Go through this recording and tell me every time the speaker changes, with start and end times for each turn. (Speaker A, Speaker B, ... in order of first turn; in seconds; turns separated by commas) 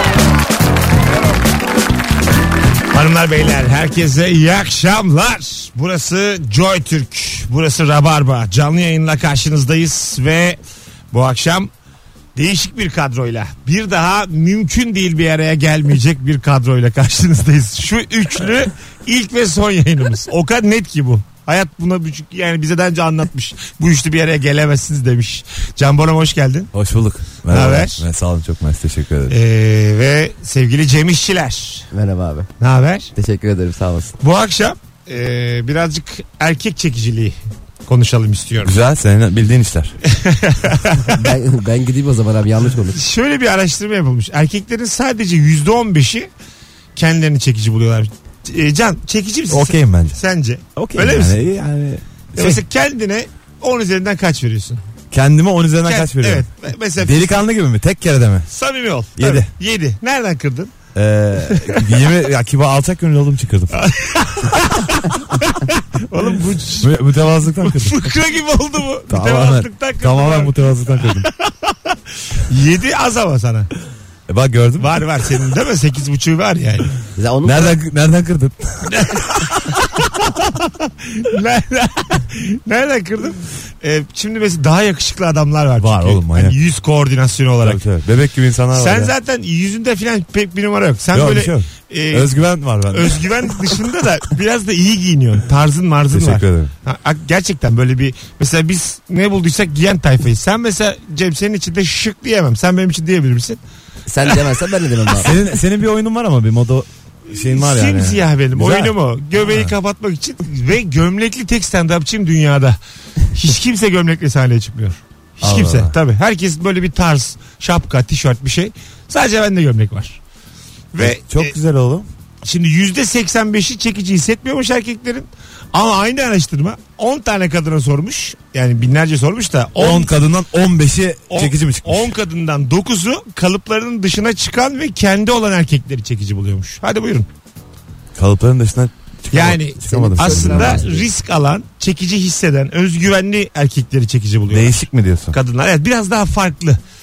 Speaker A: 2.9-10.6, Speaker A: 11.1-11.7, Speaker A: 12.3-26.7, Speaker B: 26.7-29.4, Speaker A: 27.5-28.0, Speaker A: 29.3-31.9, Speaker C: 31.9-32.5, Speaker A: 32.6-33.1, Speaker C: 33.1-34.2, Speaker A: 34.2-37.4, Speaker A: 37.9-38.7, Speaker B: 38.6-40.0, Speaker A: 40.1-41.3, Speaker C: 41.1-43.0, Speaker A: 42.9-46.3, Speaker A: 47.0-51.4, Speaker B: 49.5-50.2, Speaker B: 50.8-52.6, Speaker A: 52.3-54.8, Speaker B: 55.1-56.5, Speaker A: 55.9-57.4, Speaker B: 57.0-58.5, Speaker A: 58.5-60.7, Speaker B: 59.2-59.5, Speaker B: 61.0-63.8, Speaker A: 61.5-62.0, Speaker A: 63.7-67.0, Speaker B: 66.8-68.1, Speaker A: 67.6-72.0, Speaker B: 69.1-71.3, Speaker A: 72.5-73.7, Speaker B: 74.3-75.0, Speaker A: 74.8-76.9, Speaker C: 77.2-77.8, Speaker B: 77.4-79.1, Speaker A: 78.9-79.4, Speaker A: 80.0-87.8, Speaker B: 85.8-86.6, Speaker B: 87.6-89.1, Speaker A: 88.8-92.3, Speaker B: 91.1-93.5, Speaker A: 92.9-103.6, Speaker B: 96.1-96.7, Speaker C: 104.1-105.4, Speaker B: 105.1-109.7, Speaker A: 107.3-112.8, Speaker A: 113.3-120.2, Speaker B: 115.4-116.0, Speaker A: 120.9-121.5, Speaker B: 121.0-122.1, Speaker A: 122.5-130.1, Speaker B: 129.8-132.1, Speaker A: 131.3-137.3, Speaker B: 138.2-141.0, Speaker A: 139.3-146.8, Speaker C: 139.9-141.1, Speaker B: 144.5-145.4